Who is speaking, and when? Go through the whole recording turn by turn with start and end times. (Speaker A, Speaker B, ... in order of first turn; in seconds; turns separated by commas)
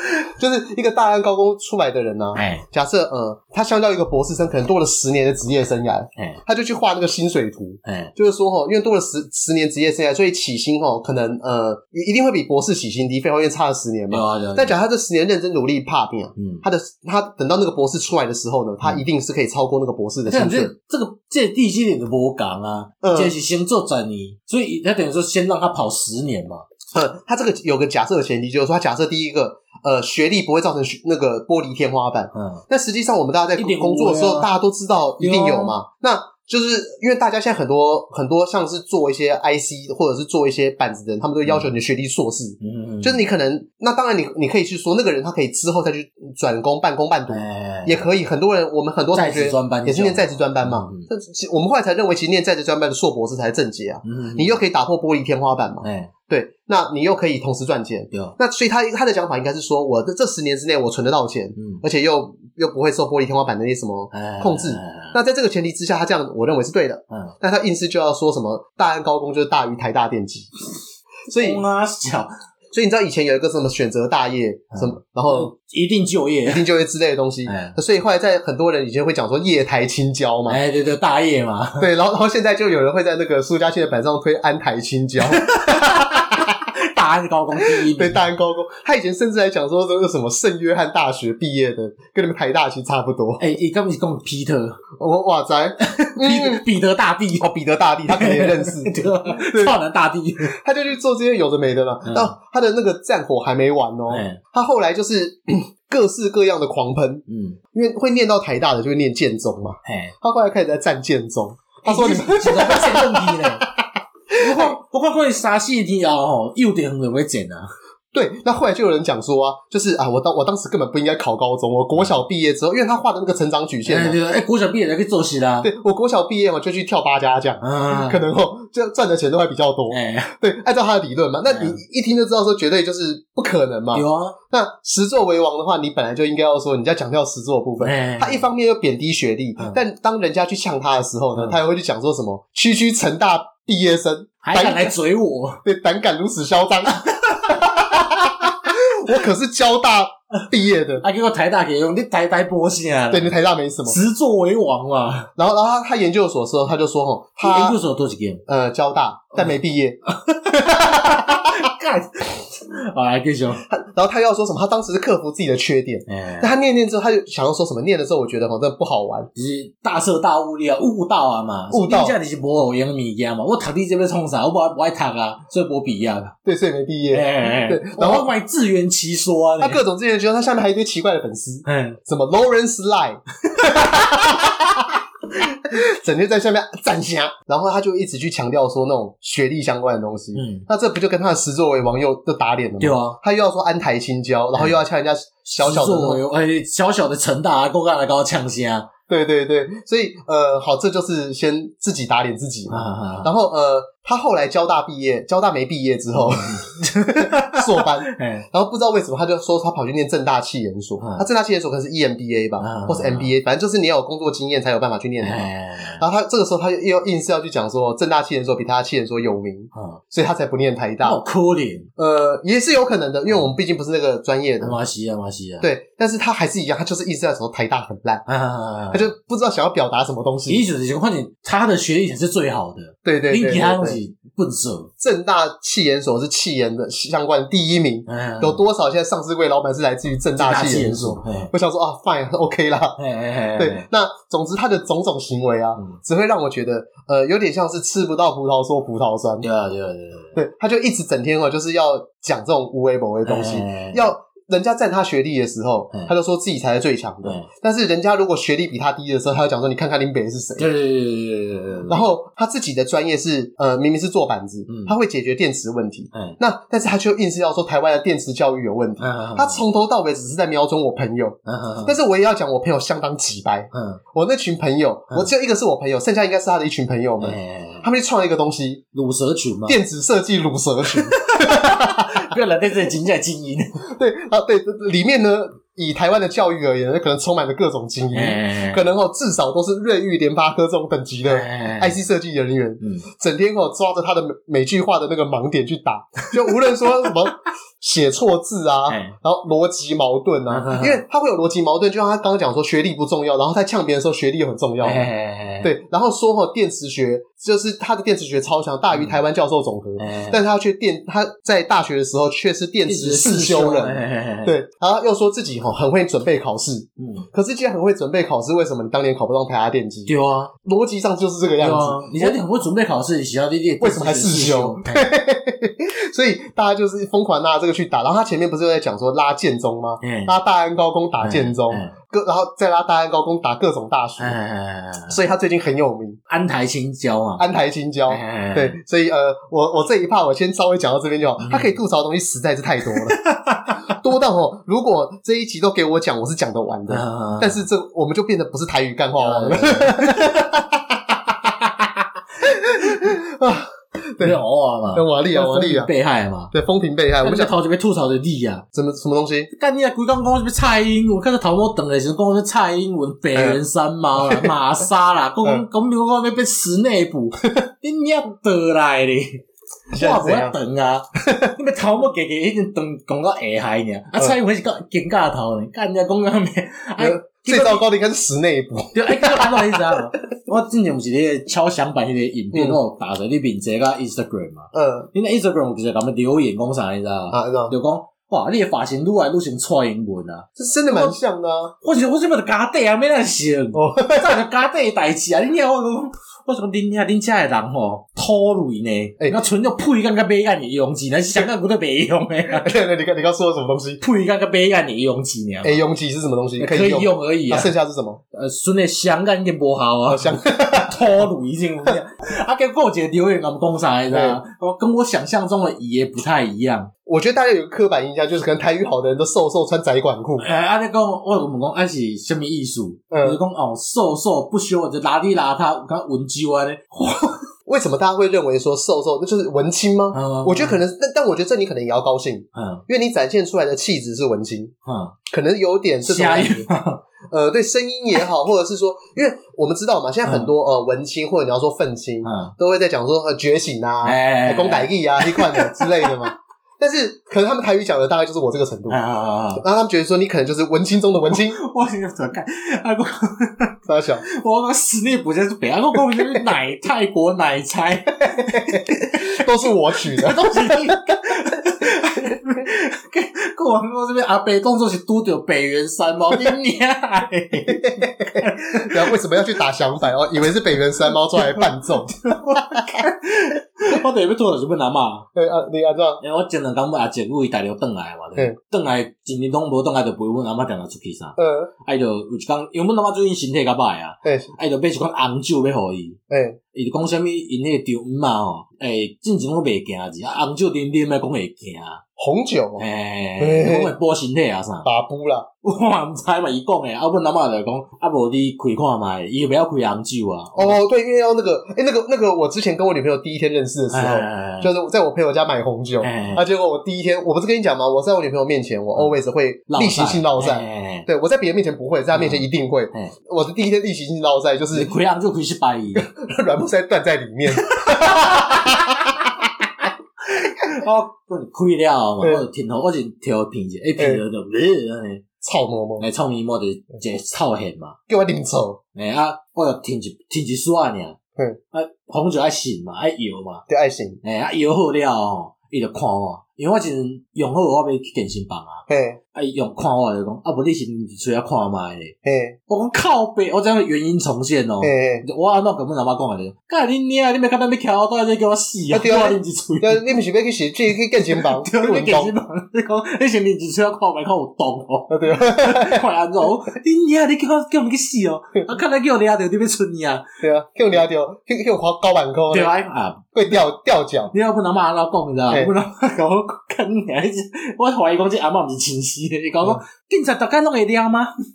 Speaker A: 0.3-20.7, Speaker B: 2.3-2.6, Speaker B: 7.8-8.1, Speaker B: 14.1-14.8, Speaker B: 16.4-16.6, Speaker B: 20.3-26.6, Speaker A: 23.0-23.3, Speaker A: 26.9-70.5, Speaker B: 32.3-32.6, Speaker B: 33.6-34.5, Speaker B: 35.2-35.7, Speaker B: 42.6-43.2, Speaker B: 47.3-48.1, Speaker B: 49.1-51.1, Speaker B: 54.0-54.6, Speaker B: 55.8-56.1, Speaker B: 58.1-58.4, Speaker B: 61.6-61.8, Speaker B: 64.1-65.2, Speaker A: 71.3-71.6, Speaker B: 71.3-72.3, Speaker A: 72.7-75.5, Speaker B: 74.7-76.6, Speaker A: 76.5-80.6, Speaker B: 77.5-77.8, Speaker B: 80.5-81.9, Speaker A: 81.8-86.6, Speaker B: 85.2-88.3, Speaker A: 87.6-93.4, Speaker B: 93.4-94.8, Speaker A: 95.0-96.6, Speaker B: 95.8-97.5, Speaker A: 97.4-99.8, Speaker B: 98.1-100.5, Speaker A: 100.4-114.8, Speaker B: 102.0-102.3, Speaker B: 104.1-104.4, Speaker B: 107.3-107.6, Speaker B: 109.8-110.1, Speaker B: 111.8-113.7, Speaker B: 114.4-117.7, Speaker A: 118.1-124.2, Speaker B: 123.8-125.7, Speaker A: 125.6-144.9, Speaker B: 127.6-128.2, Speaker B: 129.9-130.3, Speaker B: 131.5-131.8, Speaker B: 133.9-134.3, Speaker B: 137.8-138.4, Speaker B: 144.4-145.6, Speaker A: 145.6-151.0, Speaker B: 146.9-148.2, Speaker B: 151.0-155.3, Speaker A: 153.1-154.0, Speaker A: 155.3-157.8, Speaker B: 157.4-158.4, Speaker A: 158.5-160.0, Speaker B: 160.1-163.7, Speaker A: 160.5-161.6, Speaker A: 163.7-169.3, Speaker B: 166.1-166.5, Speaker B: 169.3-176.3, Speaker A: 171.7-172.2, Speaker A: 176.4-178.3, Speaker B: 177.1-179.8, Speaker A: 179.6-196.2, Speaker B: 181.6-182.0, Speaker B: 190.3-190.7, Speaker B: 192.8-193.2, Speaker B: 195.6-198.9, Speaker A: 199.1-221.2, Speaker B: 202.7-203.3, Speaker B: 206.1-208.4, Speaker B: 211.0-211.2, Speaker B: 212.6-213.3, Speaker B: 215.2-216.0, Speaker B: 219.7-220.0, Speaker B: 221.0-221.9, Speaker A: 222.0-224.8, Speaker B: 223.3-223.5, Speaker B: 224.6-225.7, Speaker A: 225.6-228.2, Speaker B: 228.2-229.1, Speaker A: 228.9-230.6, Speaker B: 230.5-234.9, Speaker A: 233.0-234.0, Speaker A: 235.0-243.0, Speaker B: 238.1-238.6, Speaker B: 240.3-241.5, Speaker B: 243.0-243.8, Speaker A: 243.6-249.5, Speaker B: 249.4-250.4, Speaker A: 250.3-260.6, Speaker B: 253.2-254.1, Speaker B: 260.6-262.0, Speaker A: 261.9-278.8, Speaker B: 264.7-264.9, Speaker B: 269.0-269.6, Speaker B: 271.4-272.0, Speaker B: 273.7-274.0, Speaker B: 277.2-277.9, Speaker B: 278.9-279.8, Speaker A: 279.6-282.3, Speaker B: 280.9-283.8, Speaker A: 283.9-305.1, Speaker B: 288.1-288.9, Speaker B: 291.3-292.0, Speaker B: 292.8-293.1, Speaker B: 296.8-297.1, Speaker B: 298.9-299.2, Speaker B: 300.5-301.0, Speaker B: 304.8-305.7, Speaker A: 305.6-320.1, Speaker B: 308.9-309.2, Speaker B: 310.0-310.4, Speaker B: 312.9-314.6, Speaker B: 317.0-317.3, Speaker B: 320.1-320.5, Speaker A: 320.6-322.4, Speaker B: 321.6-325.1, Speaker A: 323.8-334.4, Speaker B: 330.0-330.3, Speaker B: 331.2-331.9, Speaker B: 334.2-335.2, Speaker A: 335.1-336.2, Speaker B: 336.3-337.4, Speaker A: 337.4-343.2, Speaker B: 338.1-338.8, Speaker B: 341.4-341.8, Speaker B: 343.1-344.0, Speaker A: 343.9-350.6, Speaker B: 346.9-347.6, Speaker B: 349.2-350.7, Speaker B: 351.4-352.0, Speaker A: 352.4-354.4, Speaker B: 354.2-356.5, Speaker A: 354.9-355.9, Speaker A: 356.5-357.5, Speaker B: 357.2-358.6, Speaker A: 358.7-359.5, Speaker B: 359.5-369.4, Speaker A: 364.2-364.5, Speaker A: 369.9-370.6, Speaker B: 369.9-377.8, Speaker A: 377.0-380.0, Speaker B: 378.9-391.1, Speaker A: 382.5-382.8, Speaker A: 384.7-385.1, Speaker A: 387.3-387.7, Speaker A: 390.6-391.7, Speaker B: 391.8-402.8, Speaker A: 393.7-394.4, Speaker A: 402.6-404.0, Speaker B: 404.0-405.8, Speaker A: 405.6-408.2, Speaker B: 406.6-407.7, Speaker B: 408.3-416.9, Speaker A: 410.1-411.2, Speaker A: 414.1-414.4, Speaker A: 417.1-420.5, Speaker B: 420.4-427.4, Speaker A: 423.1-423.4, Speaker A: 427.7-434.7, Speaker B: 430.1-430.8, Speaker B: 432.5-432.8, Speaker B: 434.8-435.1, Speaker A: 435.3-436.7, Speaker B: 436.0-437.0, Speaker A: 437.3-449.0, Speaker B: 440.2-440.5, Speaker B: 442.2-442.5, Speaker B: 444.0-446.3, Speaker B: 448.9-449.6, Speaker A: 449.5-451.6, Speaker B: 451.2-469.2, Speaker A: 453.9-454.2, Speaker A: 456.0-456.5, Speaker A: 458.3-461.0, Speaker A: 467.7-473.1, Speaker B: 471.4-475.3, Speaker A: 475.3-476.2, Speaker B: 476.2-486.2, Speaker A: 481.4-481.7, Speaker A: 484.2-484.5, Speaker A: 486.3-486.6, Speaker B: 486.7-492.0, Speaker A: 492.2-492.8, Speaker B: 492.8-494.9, Speaker A: 493.4-493.9, Speaker A: 494.8-495.5, Speaker B: 495.6-500.8, Speaker A: 500.6-514.9, Speaker B: 503.9-504.7, Speaker B: 506.0-506.4, Speaker B: 509.7-511.1, Speaker B: 512.1-513.1, Speaker B: 514.7-516.1, Speaker A: 515.9-519.5, Speaker B: 517.7-518.8, Speaker B: 520.3-525.2, Speaker A: 525.4-526.0, Speaker B: 526.0-528.0, Speaker A: 528.1-528.8, Speaker B: 528.9-531.2, Speaker B: 531.7-533.6, Speaker A: 533.7-534.2, Speaker B: 534.2-542.1, Speaker A: 538.9-539.2, Speaker A: 542.2-542.6, Speaker B: 542.7-550.0, Speaker A: 544.8-545.2, Speaker A: 548.9-552.3, Speaker B: 551.3-560.2, Speaker A: 555.1-556.0, Speaker A: 560.4-562.7, Speaker B: 562.5-563.2, Speaker A: 563.3-564.3, Speaker B: 564.3-571.3